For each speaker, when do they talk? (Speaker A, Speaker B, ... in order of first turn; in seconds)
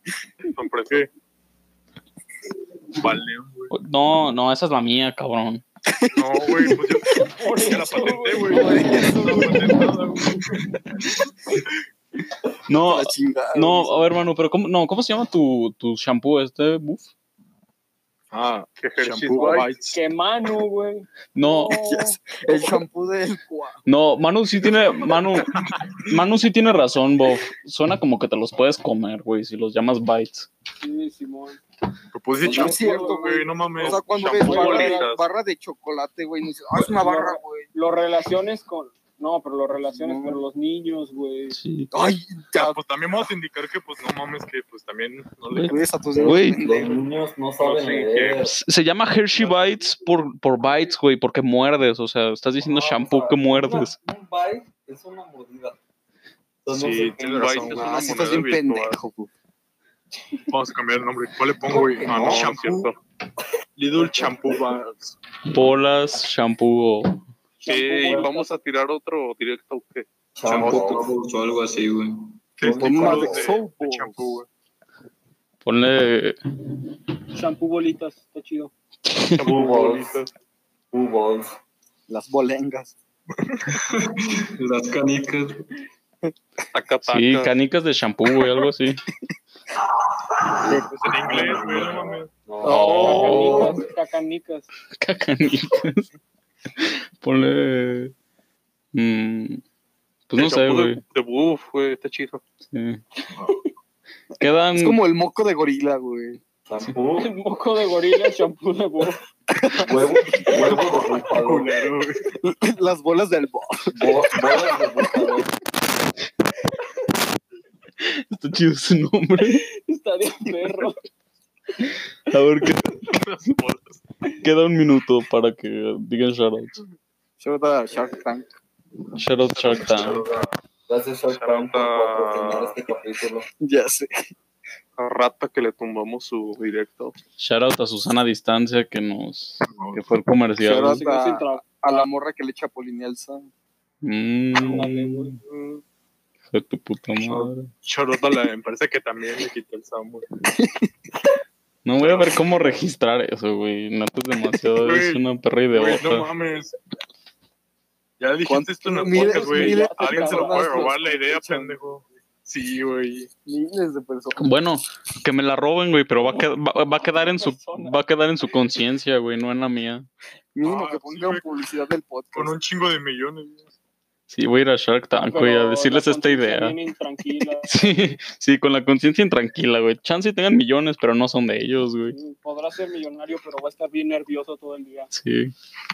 Speaker A: 0.5-1.1, 18.8-19.7, 33.9-35.3, 47.6-48.5, 57.2-59.0, 62.0-63.0, 67.7-70.1, 79.4-80.3, 86.7-87.5, 93.0-93.4, 100.3-102.4, 123.4-124.0, 129.6-129.9, 131.3-132.8, 135.0-137.2, 145.5-145.8
Speaker B: 2.9-3.7, 6.1-10.7, 18.3-20.0, 25.6-25.9, 32.1-34.7, 42.6-45.8, 56.7-58.0, 60.5-62.9, 63.8-65.2, 70.6-70.9, 72.6-74.5, 90.9-92.3, 111.2-112.2, 139.7-140.1, 147.8-150.3, 152.0-152.3, 154.8-156.8, 158.2-163.3, 170.6-171.5, 172.3-173.7
Speaker C: 3.7-5.6, 12.7-17.1, 21.4-21.8, 23.9-30.5, 41.5-41.9, 45.5-46.6, 48.4-54.0, 65.5-67.2, 75.6-76.4, 79.1-79.6, 87.1-89.0, 92.7-93.8, 95.0-96.1, 96.8-98.1, 98.9-99.6, 100.3-101.0, 102.7-103.0, 104.4-105.0, 118.0-119.6, 122.3-123.0, 124.4-126.8, 129.2-130.2, 137.4-141.0, 144.0-145.4, 146.5-147.7, 151.8-156.3, 164.4-170.1, 174.3-176.8, 177.7-182.2, 185.1-185.5
Speaker D: 5.9-7.0, 8.5-9.9, 12.8-14.0, 21.7-23.9, 32.4-37.7, 39.9-40.4, 41.9-42.8, 45.7-47.1, 57.7-59.3, 61.7-62.5, 72.7-74.4, 82.1-83.0, 93.1-93.5, 104.7-106.4, 109.5-110.5, 112.4-114.7, 127.4-128.5, 133.6-134.3, 140.6-143.5, 150.6-150.9, 158.4-161.8, 163.5-164.5, 170.6-172.6
Speaker E: 7.1-8.8, 19.3-22.2, 30.8-31.6, 32.5-33.2, 34.4-35.1, 37.0-41.6, 67.6-68.5, 77.3-78.7, 92.8-94.7, 107.2-109.2, 119.8-121.0, 141.0-142.1, 144.6-145.4, 159.1-160.9, 167.0-168.0, 175.3-177.8, 182.1-185.1
Speaker F: 46.1-48.6, 52.6-55.8, 56.6-57.2, 70.4-71.1, 72.6-73.5, 79.4-80.2, 80.9-81.6, 90.6-91.5, 92.5-93.9, 106.7-107.3, 109.8-111.8, 113.9-115.5, 129.7-133.5
Speaker G: 70.4-72.4, 83.7-85.7, 90.7-92.1, 147.2-147.5